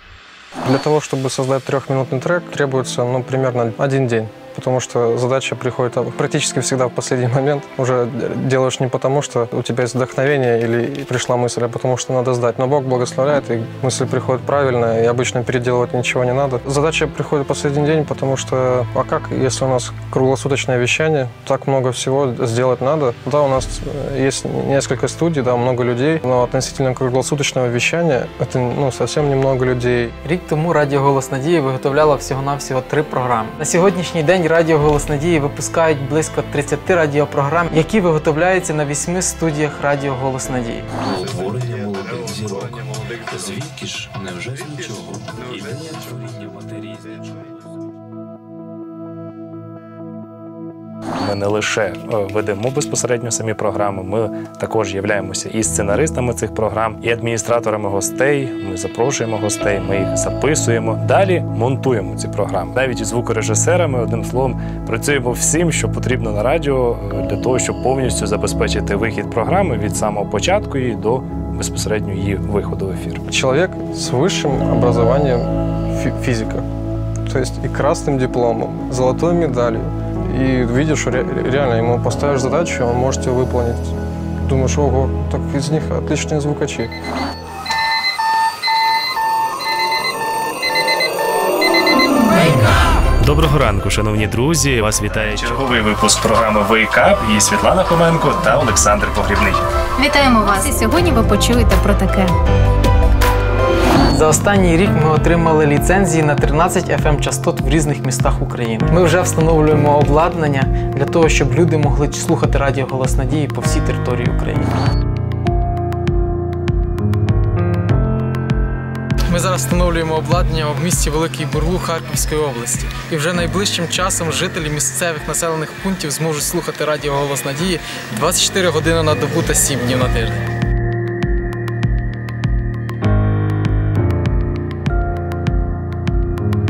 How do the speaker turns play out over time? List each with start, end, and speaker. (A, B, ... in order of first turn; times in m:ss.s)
0:00.6-0:30.1 A
0:30.2-0:40.9 B
0:41.0-0:46.8 C
0:51.2-1:13.2 D
1:13.3-1:16.6 A
1:17.2-1:23.9 A
1:24.4-1:26.9 A
1:33.2-1:39.6 D
1:40.0-1:42.3 E
1:44.1-1:54.7 B
1:59.3-2:10.4 B